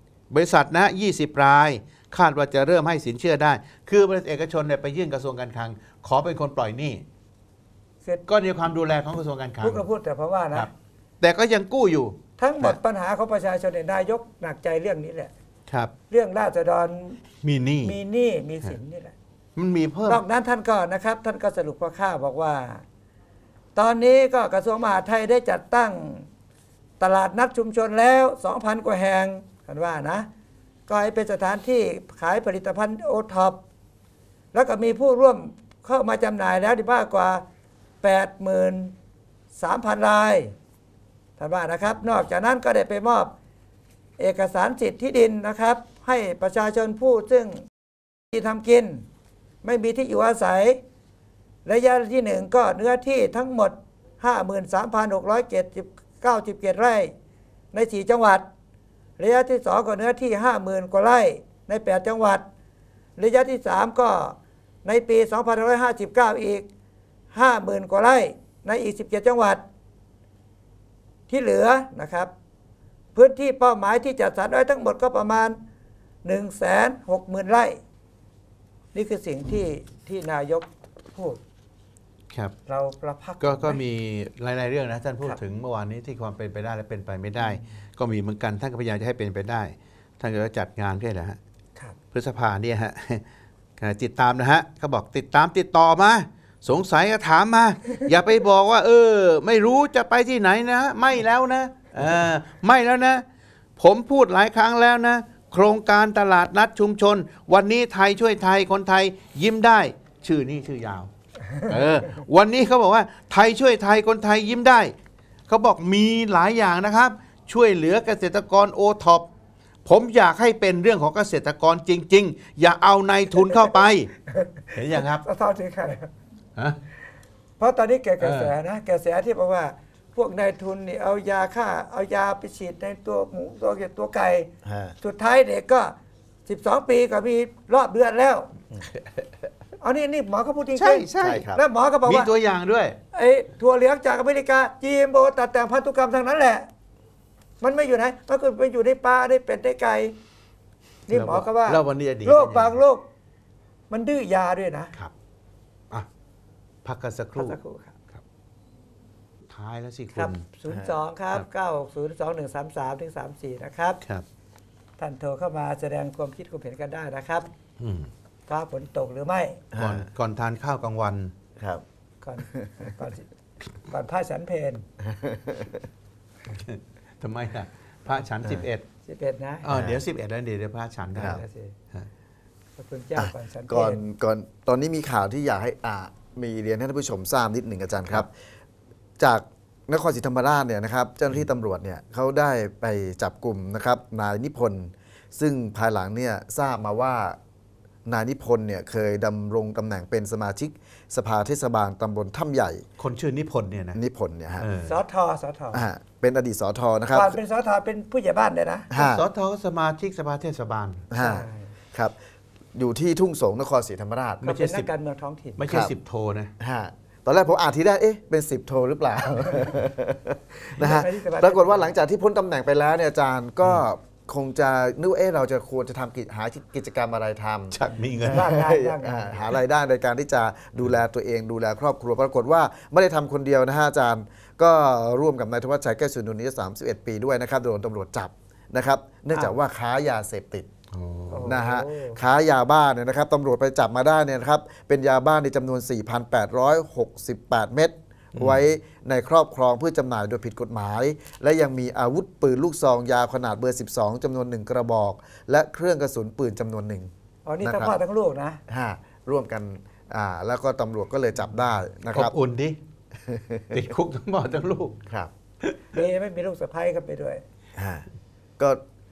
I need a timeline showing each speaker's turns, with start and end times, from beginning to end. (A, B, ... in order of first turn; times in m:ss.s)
0:00.3-0:07.0 A
0:08.3-0:09.8 A
0:09.6-0:10.7 B
0:11.2-0:12.8 A
0:12.4-0:15.3 B
0:16.1-0:17.2 B
0:17.4-0:18.0 A
0:17.8-0:19.1 B
0:19.6-0:20.2 A
0:20.1-0:22.8 B
0:23.8-0:26.3 B
0:27.0-0:30.3 B
0:30.9-0:33.6 B
0:34.5-0:37.4 B
0:38.0-0:38.9 B
0:39.6-0:40.5 B
0:41.4-0:43.3 B
0:44.2-0:47.7 B
0:48.3-0:49.0 B
0:49.6-0:50.8 B
0:51.6-0:57.1 B
0:57.7-0:58.4 B
0:59.2-1:02.4 B
1:03.2-1:06.6 B
1:07.3-1:09.6 B
1:11.3-1:12.3 B
1:13.1-1:15.6 B
1:16.2-1:17.8 B
1:18.9-1:21.4 B
1:22.7-1:23.8 B
1:23.4-1:31.4 A
1:27.4-1:27.7 B
1:32.1-1:33.2 A
1:33.8-1:43.2 A
1:43.8-1:51.1 A
1:51.5-1:52.0 B
1:51.6-1:54.9 A
1:55.5-1:59.3 A
1:59.8-2:04.1 A
2:04.3-2:06.1 B
2:04.7-2:05.2 A
2:07.6-2:14.5 B
2:08.2-2:08.6 A
2:14.6-2:15.0 C
2:15.0-2:15.9 B
2:16.4-2:18.5 B
2:19.8-2:22.3 B
2:20.8-2:21.5 A
2:21.2-2:21.6 C
2:22.0-2:23.0 A
2:23.1-2:26.7 B
2:27.6-2:30.1 B
2:31.1-2:33.1 B
2:31.1-2:32.8 A
2:33.9-2:34.9 B
2:36.8-2:37.6 A
2:37.4-2:37.9 B
2:39.5-2:40.4 A
2:40.1-2:44.0 B
2:45.0-2:47.5 B
2:47.8-2:48.1 A
2:48.5-2:49.6 B
2:49.7-2:50.1 C
2:49.8-2:51.3 A
2:52.2-2:53.3 B
2:53.9-2:54.8 B
2:55.0-2:55.8 C
2:56.5-2:58.8 A
2:58.4-2:58.7 C
2:59.1-2:59.7 B
2:59.6-3:02.1 A
2:59.7-3:00.0 C
3:01.1-3:01.4 C
3:01.2-3:01.8 B
3:02.8-3:04.0 B
3:03.2-3:08.3 C
3:09.2-3:17.4 C
3:18.0-3:22.8 C
3:23.0-3:24.0 A
3:23.9-3:24.7 C
3:24.6-3:25.0 A
3:24.8-3:25.8 B
3:25.7-3:27.4 C
3:27.1-3:28.9 B
3:28.9-3:29.2 C
3:28.9-3:31.1 A
3:31.1-3:32.1 C
3:31.1-3:31.7 B
3:32.7-3:34.4 C
3:34.4-3:34.9 A
3:34.4-3:35.6 B
3:35.6-3:36.5 A
3:35.7-3:35.9 C
3:36.6-4:00.7 C
3:40.7-3:41.9 B
3:47.7-3:48.5 A
3:48.2-3:49.5 B
4:00.9-4:01.6 A
4:01.3-4:02.2 B
4:01.4-4:17.1 C
4:08.3-4:08.7 A
4:17.4-4:18.6 B
4:17.6-4:17.9 C
4:18.7-4:22.3 C
4:22.1-4:22.8 A
4:23.2-4:23.9 C
4:23.7-4:25.0 A
4:25.1-4:25.3 C
4:25.9-4:27.4 B
4:27.8-4:28.1 C